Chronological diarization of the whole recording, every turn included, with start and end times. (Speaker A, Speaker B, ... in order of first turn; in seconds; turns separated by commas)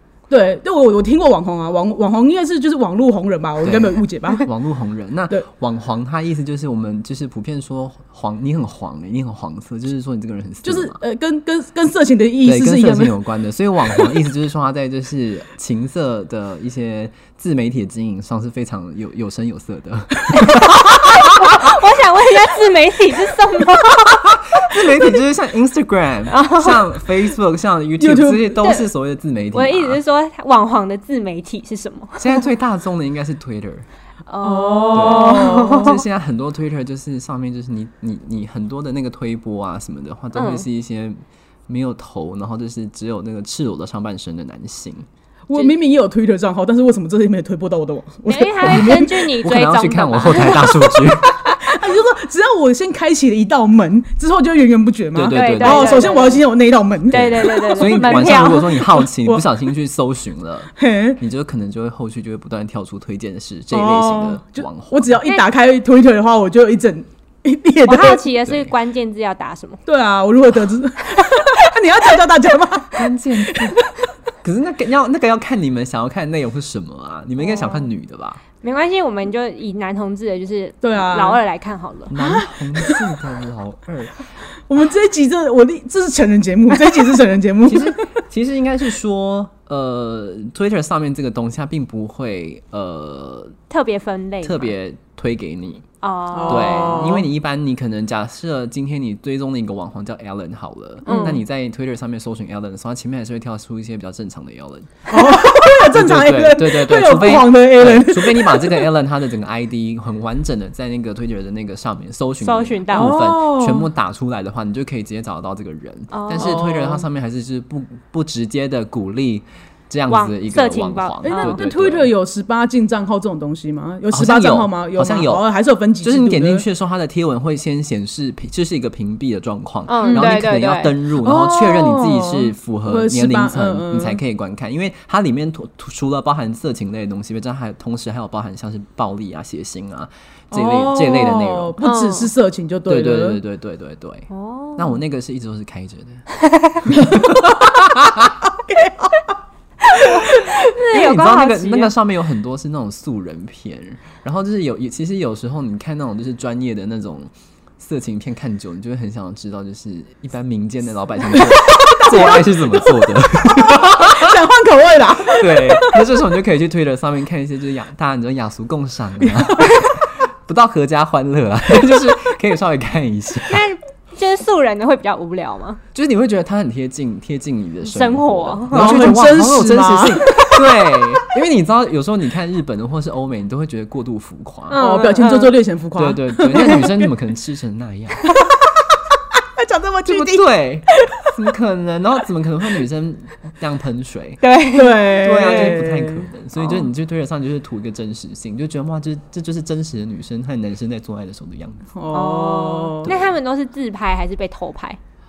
Speaker A: 0.3-4.5, Speaker B: 3.6-11.0, Speaker A: 10.6-13.1, Speaker B: 12.4-21.7, Speaker C: 20.4-24.3, Speaker B: 24.2-30.0, Speaker C: 26.3-27.0, Speaker A: 28.0-28.6, Speaker C: 28.6-28.9, Speaker C: 29.5-32.4, Speaker B: 32.2-33.9, Speaker C: 34.3-36.0, Speaker A: 34.4-36.0, Speaker B: 34.9-45.0, Speaker C: 40.3-40.6, Speaker A: 45.5-49.3, Speaker C: 48.3-50.9, Speaker B: 49.4-51.4, Speaker A: 50.9-59.4, Speaker B: 55.1-56.1, Speaker C: 55.3-56.4, Speaker C: 57.1-58.8, Speaker B: 57.1-65.1, Speaker A: 60.8-61.2, Speaker A: 63.7-68.2, Speaker C: 67.8-69.8, Speaker B: 68.4-68.7, Speaker A: 69.9-73.9, Speaker B: 72.9-73.8, Speaker B: 74.4-78.4, Speaker A: 77.5-77.8, Speaker C: 78.6-82.1, Speaker A: 80.8-81.4, Speaker B: 82.1-84.1, Speaker A: 82.2-83.0, Speaker A: 84.7-88.0, Speaker B: 87.7-93.6, Speaker C: 93.7-94.7, Speaker B: 94.4-95.8, Speaker C: 96.0-97.1, Speaker A: 96.3-97.2, Speaker B: 96.5-122.1, Speaker A: 101.0-101.4, Speaker C: 101.0-101.4, Speaker A: 105.1-108.9, Speaker C: 112.4-113.2, Speaker A: 112.9-113.9, Speaker C: 116.1-116.7, Speaker A: 116.4-117.0, Speaker C: 120.1-121.6, Speaker A: 121.2-126.6, Speaker B: 124.1-125.5, Speaker B: 126.0-141.7, Speaker C: 129.9-130.9, Speaker A: 130.0-130.3, Speaker A: 131.2-134.2, Speaker A: 140.5-143.4, Speaker C: 141.8-142.3, Speaker B: 142.9-146.2, Speaker C: 144.3-145.0, Speaker C: 146.4-146.8, Speaker B: 146.8-147.7, Speaker A: 146.9-147.9, Speaker A: 148.7-149.2, Speaker C: 149.9-151.9, Speaker A: 149.9-150.4, Speaker B: 150.9-164.4, Speaker A: 161.7-162.4, Speaker A: 163.4-166.1, Speaker B: 165.2-173.6, Speaker A: 169.5-169.8, Speaker C: 173.5-175.8, Speaker B: 175.9-184.8, Speaker C: 177.8-179.0, Speaker A: 178.7-180.6, Speaker C: 184.7-185.6, Speaker A: 184.8-187.1, Speaker B: 185.9-188.2, Speaker A: 188.3-188.6, Speaker A: 189.6-191.3, Speaker B: 190.1-194.4, Speaker C: 194.4-195.8, Speaker A: 194.7-196.2, Speaker B: 195.1-201.9, Speaker A: 201.9-203.1, Speaker C: 202.1-205.0, Speaker B: 203.0-203.3